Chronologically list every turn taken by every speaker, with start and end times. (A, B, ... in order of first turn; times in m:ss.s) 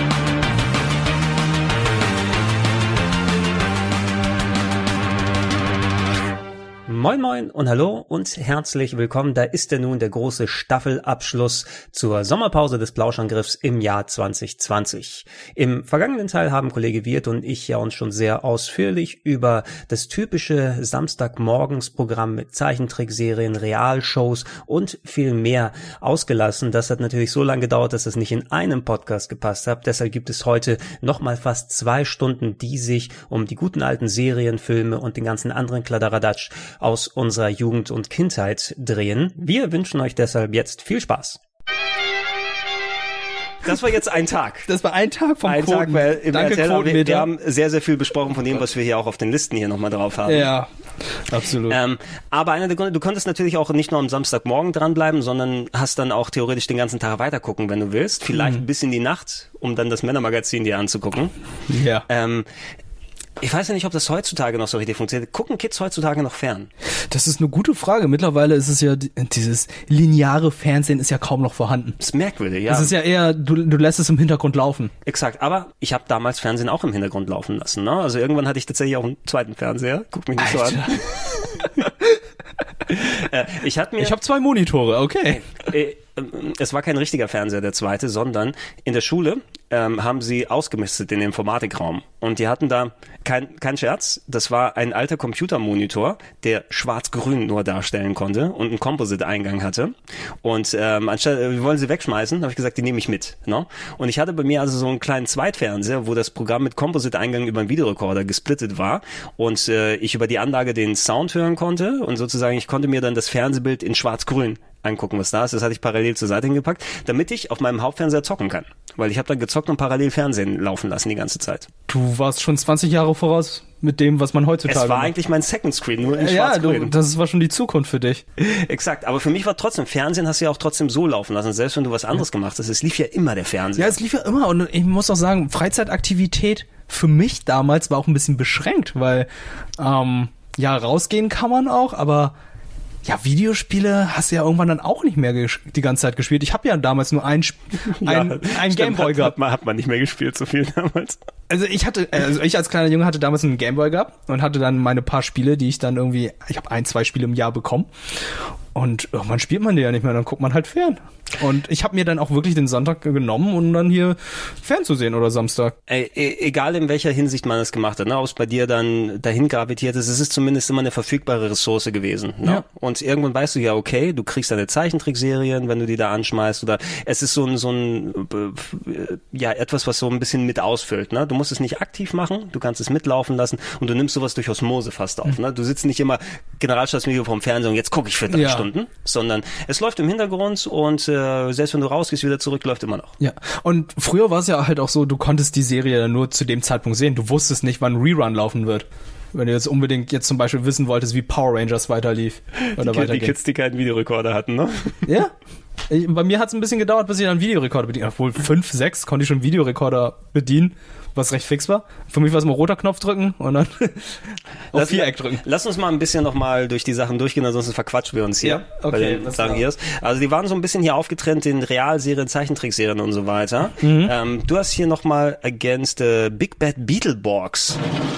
0:06.9-0:41.4 A
0:43.6-0:44.7 A
0:44.7-0:47.3 B
0:45.4-0:50.5 A
0:50.3-0:50.7 B
0:51.3-0:51.8 B
0:51.7-1:01.3 A
0:58.3-0:58.6 B
1:01.7-1:02.0 B
1:02.1-1:02.5 A
1:03.4-1:06.7 A
1:07.1-1:12.0 B
1:12.0-1:13.0 A
1:12.7-1:14.9 B
1:15.0-1:21.1 A
1:20.4-1:20.9 B
1:22.9-1:24.2 A
1:24.0-1:25.4 B
1:25.3-2:01.7 A
2:01.9-2:05.1 B
2:04.6-2:06.9 A
2:06.2-2:08.2 B
2:08.4-2:14.0 A
2:13.8-2:19.3 B
2:19.8-2:22.3 B
2:23.0-2:29.3 B
2:27.9-2:31.2 A
2:31.5-2:37.9 B
2:38.8-2:45.8 B
2:45.9-3:13.1 A
3:08.3-3:08.7 B
3:13.2-3:23.3 B
3:22.7-3:25.1 A
3:25.1-3:25.3 B
3:25.9-3:34.2 B
3:34.7-3:35.4 B
3:34.7-3:47.8 A
3:38.4-3:39.6 B
3:43.8-3:44.1 B